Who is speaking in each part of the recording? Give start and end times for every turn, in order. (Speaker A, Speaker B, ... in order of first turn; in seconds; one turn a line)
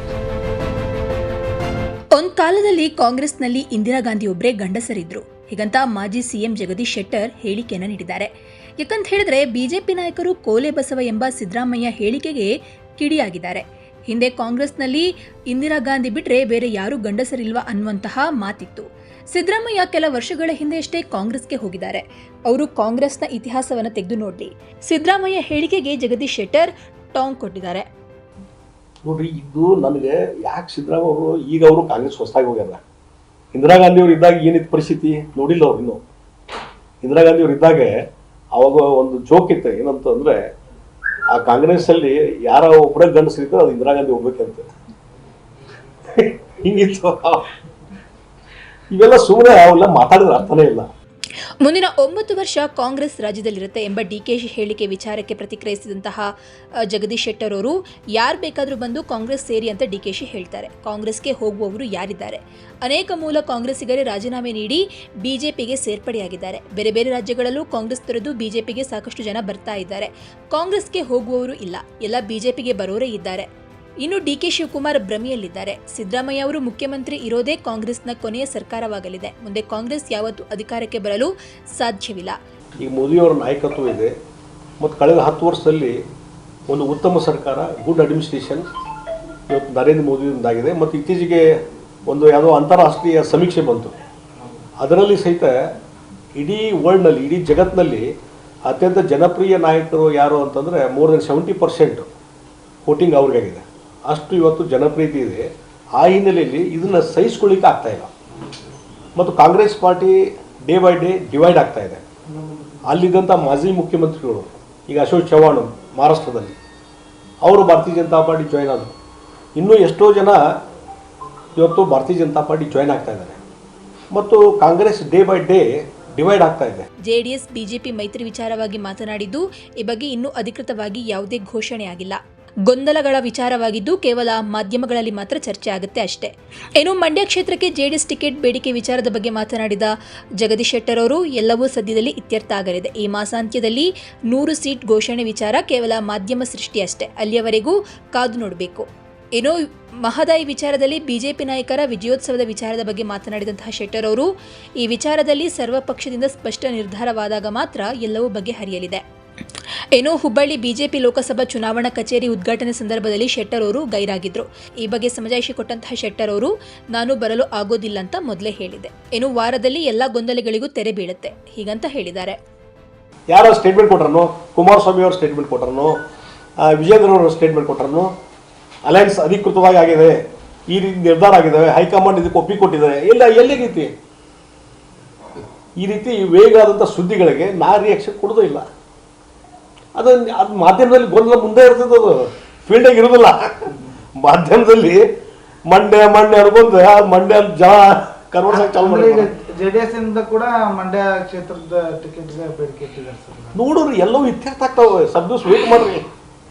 Speaker A: 2.1-27.9
Speaker B: 29.0-32.8
Speaker B: 33.5-36.0
Speaker B: 37.0-37.9
Speaker B: 38.5-40.4
Speaker B: 41.3-44.7
Speaker B: 46.1-47.5
Speaker B: 48.9-50.9
Speaker A: 51.6-56.3
Speaker A: 56.8-73.5
Speaker A: 74.0-82.4
Speaker B: 82.8-84.1
Speaker B: 84.8-86.0
Speaker B: 86.7-88.7
Speaker B: 89.5-91.5
Speaker B: 92.1-94.0
Speaker B: 94.8-95.6
Speaker B: 96.3-98.1
Speaker B: 98.7-102.1
Speaker B: 102.8-108.1
Speaker B: 109.2-112.0
Speaker B: 112.8-116.5
Speaker B: 117.4-118.9
Speaker B: 119.5-120.5
Speaker B: 121.5-123.4
Speaker B: 124.1-126.9
Speaker A: 127.0-154.3
Speaker A: 154.8-159.0
Speaker A: 159.6-172.4
Speaker B: 173.3-176.0
Speaker B: 176.6-178.1
Speaker B: 178.8-183.9
Speaker B: 185.8-188.7
Speaker B: 189.9-195.0
Speaker B: 195.7-199.3
Speaker C: 198.5-203.6
Speaker B: 203.5-206.0